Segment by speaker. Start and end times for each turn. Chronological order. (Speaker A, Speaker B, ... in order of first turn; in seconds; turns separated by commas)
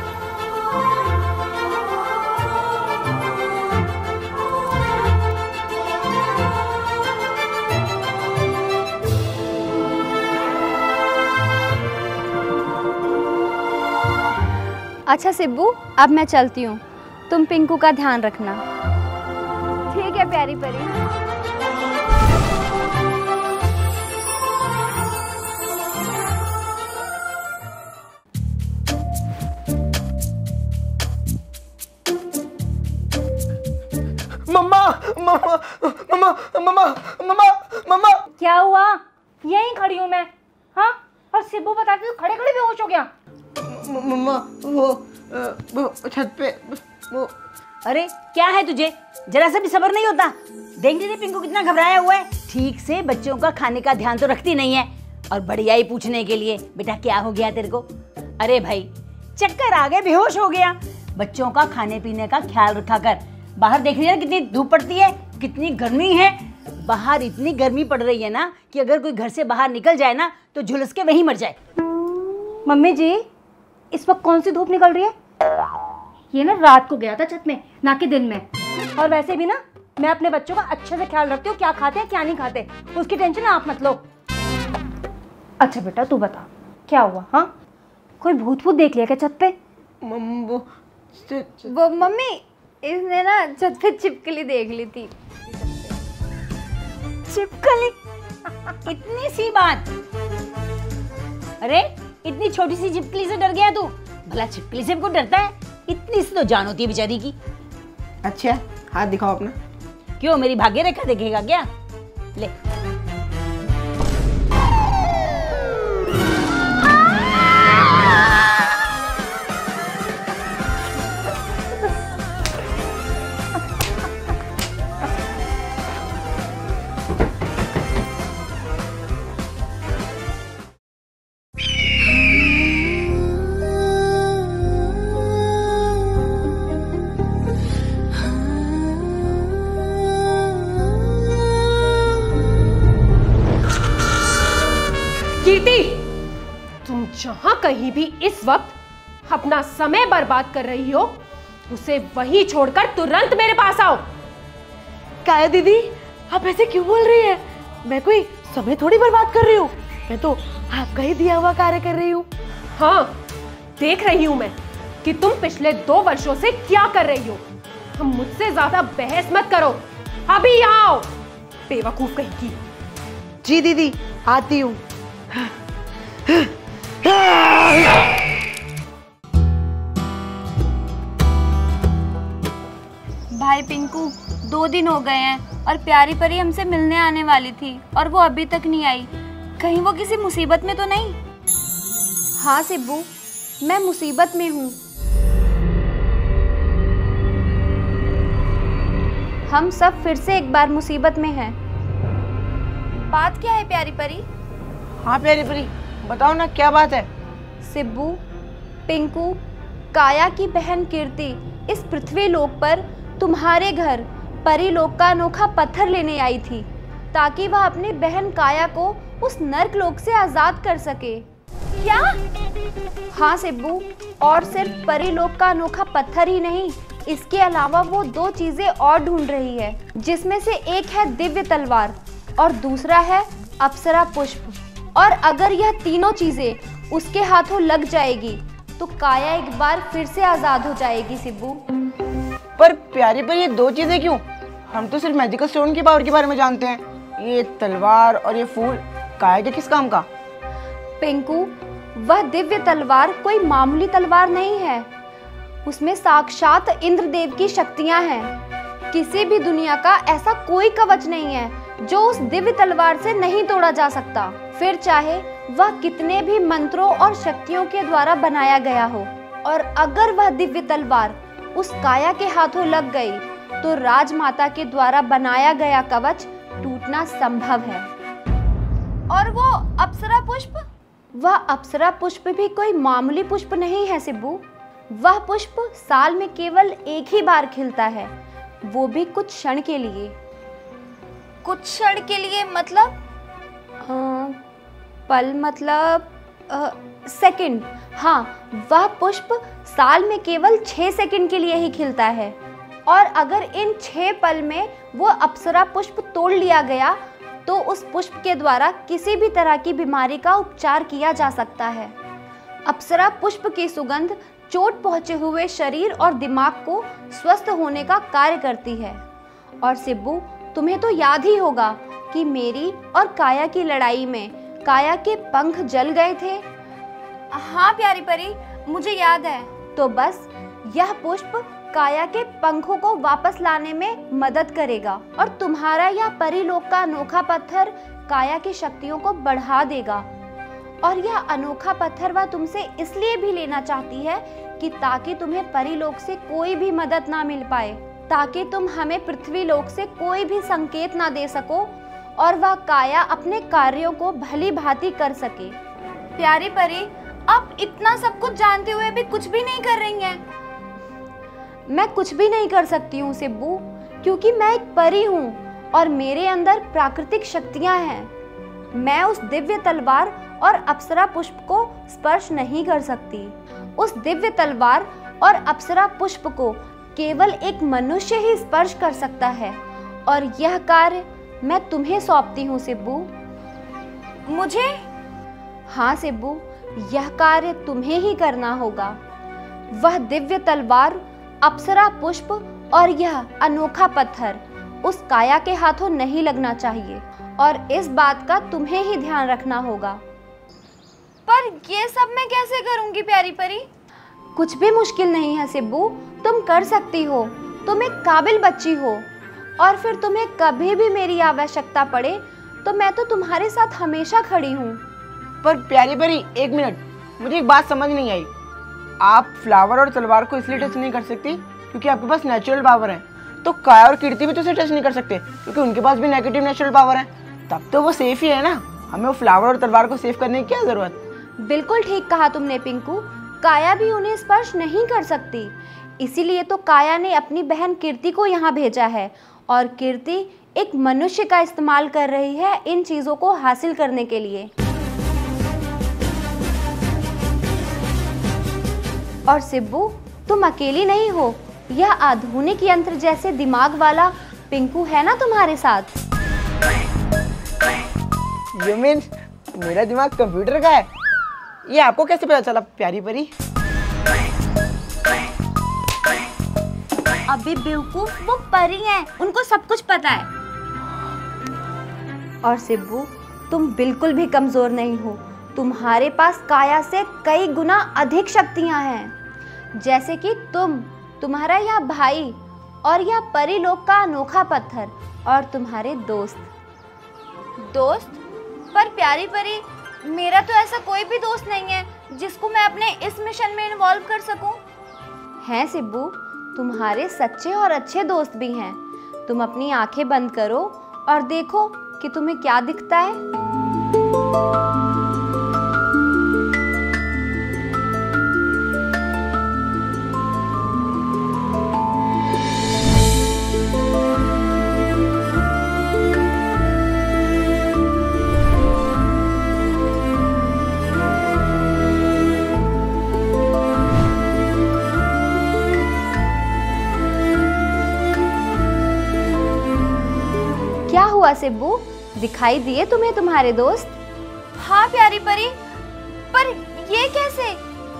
Speaker A: 15.1-18.6, Speaker A: 19.9-21.0, Speaker B: 34.5-38.2, Speaker C: 38.4-43.1, Speaker B: 43.6-47.3, Speaker D: 47.8-71.5, Speaker C: 72.7-73.2, Speaker C: 73.9-75.1, Speaker C: 76.3-78.4, Speaker C: 79.0-84.0, Speaker C: 85.6-87.5, Speaker C: 88.2-89.5, Speaker B: 90.0-91.7, Speaker A: 91.7-95.1, Speaker D: 97.3-98.0, Speaker D: 98.8-99.8, Speaker D: 101.6-107.3, Speaker B: 108.2-109.5, Speaker D: 110.2-111.7, Speaker E: 145.4-146.1, Speaker E: 146.8-154.1, Speaker F: 155.2-162.2, Speaker E: 162.7-163.2, Speaker E: 163.8-167.4, Speaker E: 167.9-171.1, Speaker E: 171.7-172.6, Speaker F: 173.4-174.8, Speaker F: 176.3-176.5, Speaker F: 177.0-178.0, Speaker A: 183.3-191.2, Speaker A: 192.4-193.1, Speaker A: 193.6-194.8, Speaker A: 199.5-201.6, Speaker A: 203.1-204.2, Speaker B: 205.0-207.1, Speaker A: 207.6-208.2, Speaker A: 208.9-209.4, Speaker A: 209.9-221.2, Speaker A: 221.8-222.2, Speaker A: 223.1-241.6, Speaker B: 242.6-250.1, Speaker A: 251.0-254.9, Speaker A: 255.6-258.3, Speaker A: 258.9-277.9, Speaker A: 279.1-288.1, Speaker A: 288.6-290.1, Speaker A: 291.4-293.0, Speaker A: 293.8-294.4, Speaker A: 295.1-302.4, Speaker A: 302.9-311.9, Speaker A: 312.6-319.0, Speaker A: 319.6-326.4, Speaker A: 327.3-340.1, Speaker A: 340.8-355.6, Speaker A: 356.2-360.2, Speaker A: 361.7-368.1, Speaker A: 368.7-383.1, Speaker A: 384.3-384.8, Speaker A: 385.7-389.0, Speaker A: 389.7-400.0, Speaker A: 401.3-403.7, Speaker A: 404.4-409.1, Speaker A: 409.6-414.8, Speaker B: 415.4-418.3, Speaker B: 419.0-431.0, Speaker A: 431.4-444.5, Speaker A: 449.3-456.0, Speaker B: 458.5-460.9, Speaker B: 461.7-463.3, Speaker A: 467.3-470.3, Speaker A: 472.4-479.1, Speaker A: 479.7-486.5, Speaker A: 487.6-488.2, Speaker A: 488.7-494.6, Speaker A: 495.4-503.2, Speaker A: 530.9-534.0, Speaker A: 534.6-535.6, Speaker A: 536.3-537.6